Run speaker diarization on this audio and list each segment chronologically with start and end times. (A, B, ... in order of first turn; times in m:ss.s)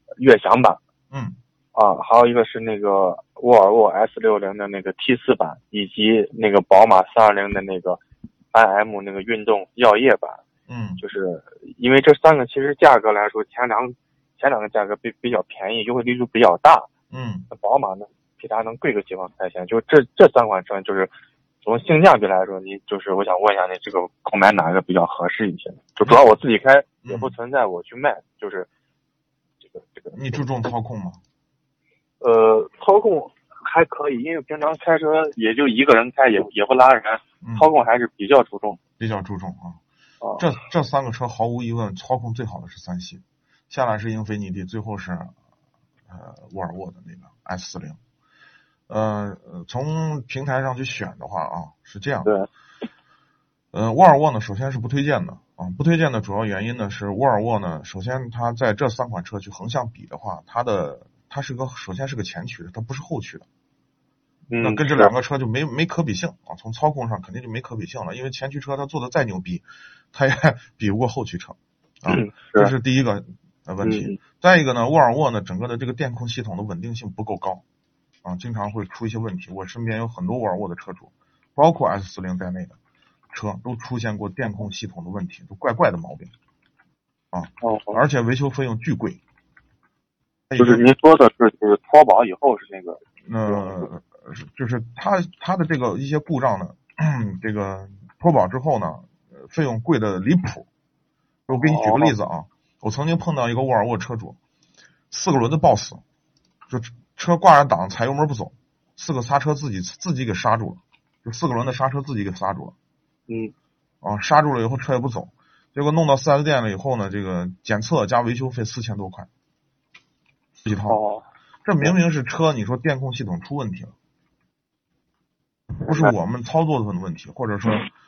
0:00.2-0:00.8 A
0:01.1-0:01.4 B
0:01.7-0:08.0 A
0:08.5-0:10.4 A
0:10.7-0:11.0 B
0:11.0-0:16.9 A
0:17.1-0:17.5 B
0:17.5-0:21.1 A
0:21.6-0:28.7 A
0:27.0-0:27.3 B
0:29.7-0:30.4 A
0:30.1-0:31.2 B
0:32.2-0:38.8 A
0:37.4-0:37.7 B
0:39.0-0:39.8 B
0:40.4-0:45.3 B
0:46.1-0:48.0 B
0:48.9-0:52.3 B
0:53.7-1:03.4 B
1:04.5-1:05.1 A
1:04.6-1:17.6 B
1:12.1-1:12.7 A
1:13.8-1:14.2 A
1:18.2-1:22.8 B
1:23.3-1:26.3 B
1:27.3-1:29.2 B
1:27.6-1:28.0 A
1:30.5-1:30.8 B
1:30.6-1:33.9 A
1:33.2-1:40.7 B
1:41.5-1:44.4 B
1:41.5-1:42.1 A
1:45.1-1:46.0 B
1:46.7-1:52.7 B
1:53.3-1:53.5 A
1:54.0-1:59.3 B
2:00.6-2:01.0 B
2:00.9-2:01.2 A
2:01.6-2:03.9 B
2:05.8-2:07.9 B
2:05.9-2:06.1 A